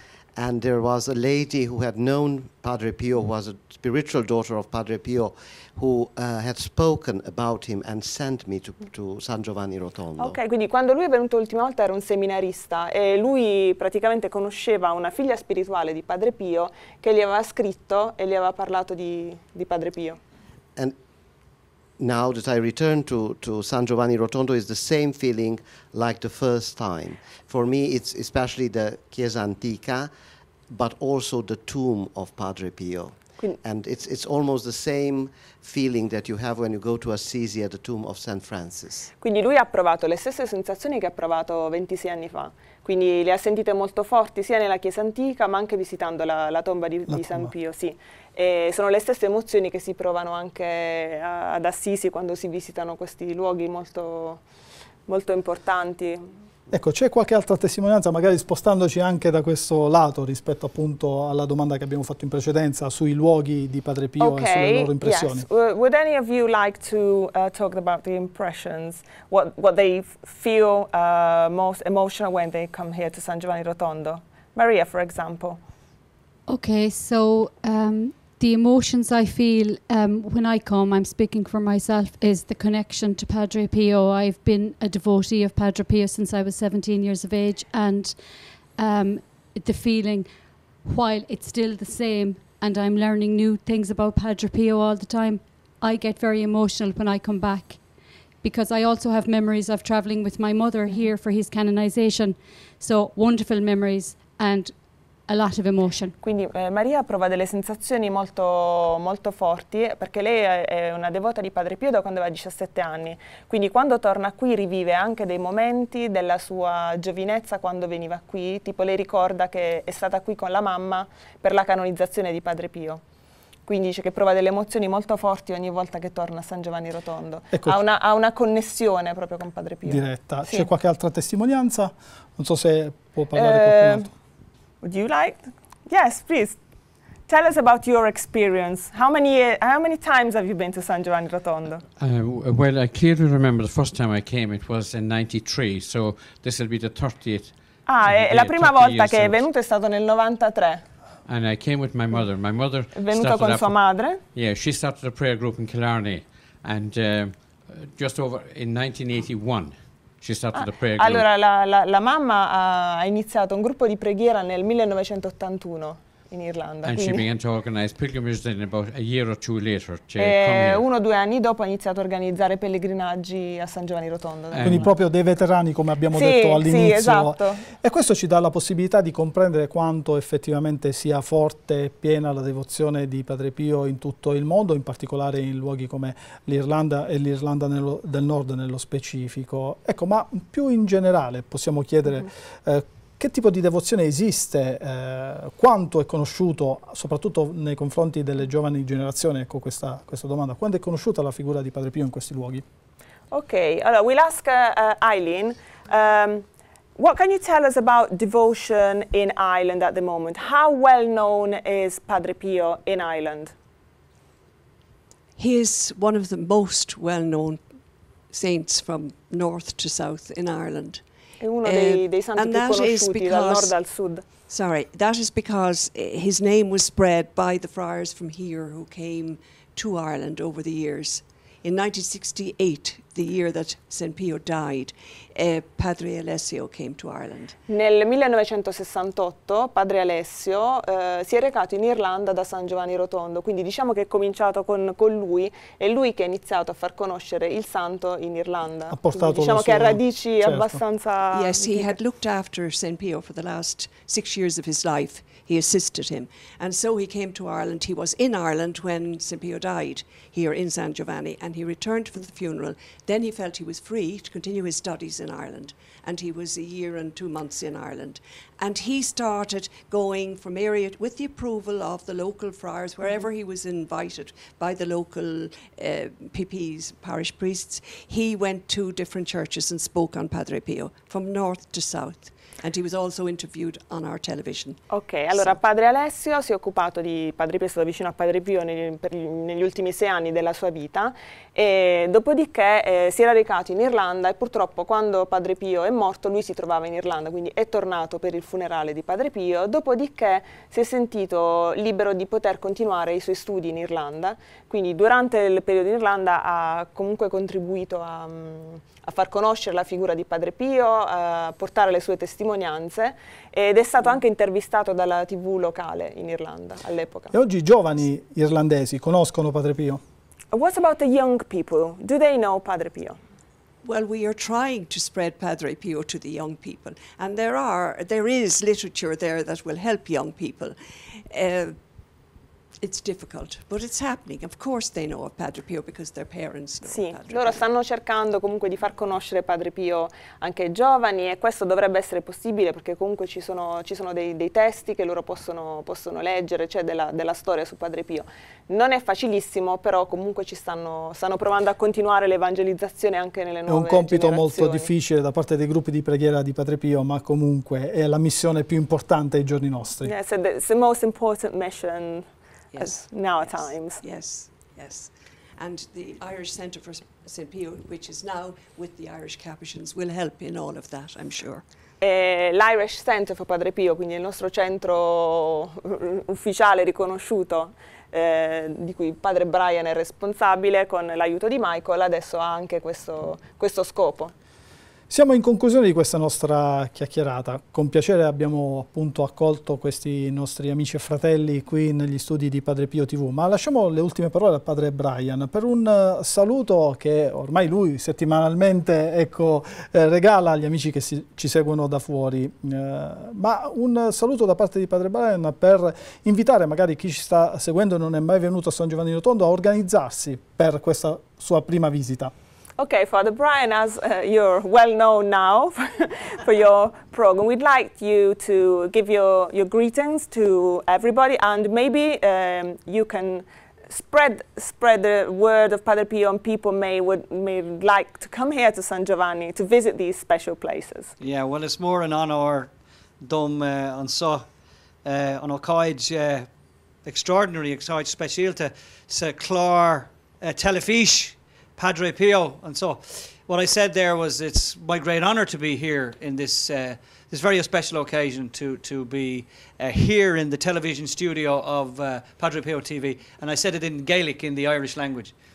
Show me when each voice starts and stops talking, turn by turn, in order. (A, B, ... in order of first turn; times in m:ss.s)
0:00.4-0:10.4 A
0:10.2-0:20.2 B
0:22.0-0:30.1 A
0:30.7-0:39.1 A
0:39.2-0:54.4 B
0:47.1-0:47.5 C
0:55.1-0:56.3 B
0:56.7-1:05.4 C
1:04.2-1:15.6 B
1:16.5-1:37.8 D
1:38.4-1:46.1 D
1:46.2-2:03.0 B
2:03.6-2:10.7 B
2:09.8-2:14.1 C
2:13.3-2:14.1 B
2:14.8-2:16.6 B
2:17.2-2:21.8 B
2:22.0-2:29.5 E
2:27.8-2:30.8 B
2:31.2-2:41.3 E
2:32.9-2:34.2 B
2:40.5-2:47.3 B
2:46.8-2:50.8 E
2:50.2-2:54.9 B
2:54.5-2:54.9 E
2:54.6-3:22.6 C
2:56.1-2:57.6 B
3:23.3-3:33.5 B
3:35.4-3:57.5 F
3:41.4-3:44.3 B
3:57.7-4:12.0 B
4:08.9-4:10.8 C
4:11.3-4:44.8 F
4:44.9-5:17.3 B
5:17.3-5:20.0 C
5:20.5-5:23.2 B
5:23.8-5:31.8 F
5:32.8-5:37.6 F
5:36.8-5:54.9 B
5:53.7-6:00.1 C
6:00.0-6:02.2 B
6:02.7-6:11.6 F
6:02.8-6:04.0 B
6:12.0-6:24.3 B
6:25.1-6:52.3 C
6:52.8-7:11.1 B
7:11.2-7:14.5 G
7:15.0-7:16.5 G
7:17.0-7:35.3 G